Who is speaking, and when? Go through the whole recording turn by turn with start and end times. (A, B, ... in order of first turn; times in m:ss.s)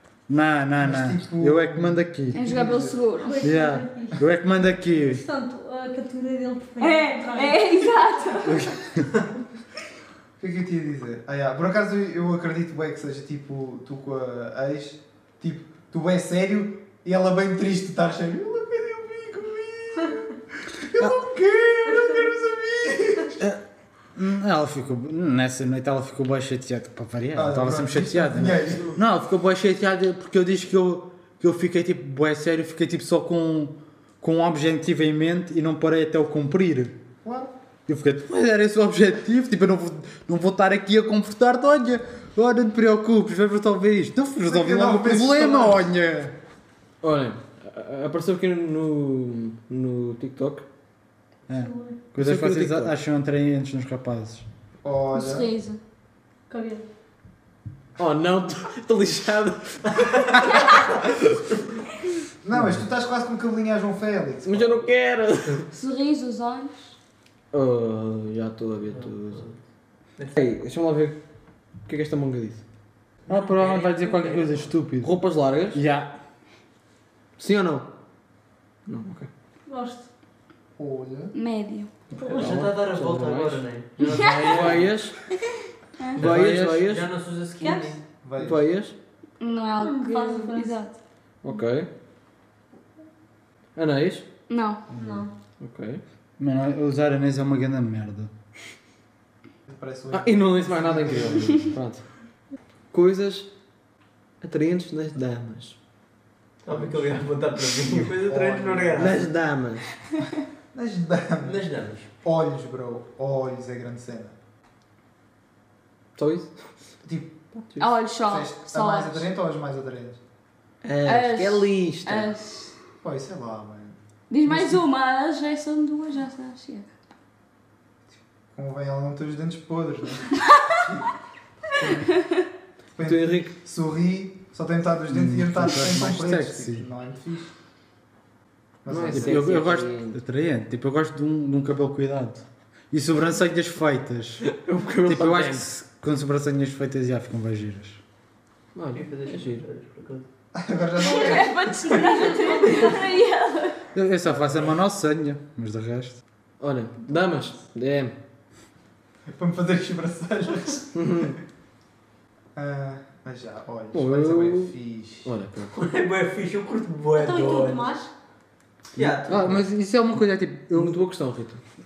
0:00.3-0:02.4 A
0:00.8-0:03.0 B
0:02.3-0:03.4 C
0:03.2-0:04.2 D
0:03.4-0:05.2 A
0:05.0-0:08.4 D
0:06.8-0:08.7 C
0:08.4-0:09.1 A
0:10.4-0:23.4 B
0:24.2-0:36.9 A
0:27.3-0:29.0 B
0:37.2-0:37.5 B
0:37.9-0:46.3 A
0:44.4-0:45.8 B
0:47.0-0:50.6 E
0:51.5-0:54.4 A
0:51.5-0:52.0 D
0:52.2-0:52.9 E
0:54.8-0:55.5 B
0:55.1-0:55.8 C
0:56.5-0:56.8 D
0:58.0-1:01.3 E
1:00.0-1:01.0 F
1:02.4-1:04.9 B
1:04.4-1:05.7 E
1:05.7-1:06.9 C
1:07.5-1:09.4 E
1:08.9-1:09.6 F
1:10.2-1:10.4 F
1:10.4-1:11.2 E
1:11.8-1:12.6 E
1:13.3-1:15.1 A
1:13.3-1:14.6 F
1:15.0-1:15.8 E
1:15.7-1:16.1 A
1:17.4-1:17.9 E
1:18.9-1:19.3 E
1:19.7-1:20.1 D
1:20.8-1:21.3 B
1:21.3-1:21.9 C
1:22.1-1:25.2 E
1:22.2-1:24.9 F
1:22.2-1:22.6 D
1:26.2-1:28.0 F
1:26.2-1:27.1 E
1:26.2-1:26.9 A
1:27.6-1:28.0 D
1:28.2-1:28.7 B
1:28.4-1:28.9 E
1:29.4-1:31.0 C
1:29.8-1:30.8 D
1:31.4-1:31.9 E
1:33.7-1:34.2 E
1:34.5-1:34.8 C
1:34.9-1:35.2 B
1:34.9-1:35.3 D
1:35.6-1:36.0 E
1:36.4-1:38.3 A
1:39.7-1:41.8 B
1:40.1-1:42.0 E
1:42.9-1:43.5 E
1:44.4-1:45.8 E
1:46.6-1:49.2 F
1:48.2-1:49.1 B
1:48.9-1:49.9 E
1:50.7-1:51.6 B
1:51.4-1:52.1 F
1:52.2-1:54.3 B
1:56.2-1:56.5 E
1:57.0-1:57.3 B
1:57.6-1:57.9 E
1:57.8-1:59.2 C
1:58.2-2:00.2 B
2:00.8-2:02.3 E
2:01.0-2:02.7 C
2:03.0-2:04.8 B
2:04.3-2:06.8 C
2:08.5-2:11.1 B
2:11.7-2:12.2 B
2:13.0-2:17.5 B
2:13.0-2:13.5 E
2:15.1-2:16.8 A
2:18.8-2:19.5 B
2:18.9-2:20.2 E
2:19.1-2:24.4 A
2:24.4-2:25.6 E
2:25.0-2:28.0 A
2:28.7-2:29.6 E
2:28.9-2:30.2 F
2:30.5-2:32.0 B
2:31.0-2:33.8 C
2:31.0-2:33.2 D
2:33.9-2:36.2 A
2:34.4-2:34.7 B
2:36.6-2:38.1 E
2:39.3-2:41.3 B
2:40.9-2:41.4 E
2:42.5-2:45.3 B
2:43.9-2:44.7 E
2:45.2-2:45.7 E
2:45.7-2:47.9 F
2:47.1-2:48.1 D
2:48.9-2:49.6 F
2:49.0-2:49.3 E
2:49.3-2:51.0 A
2:50.7-2:51.6 E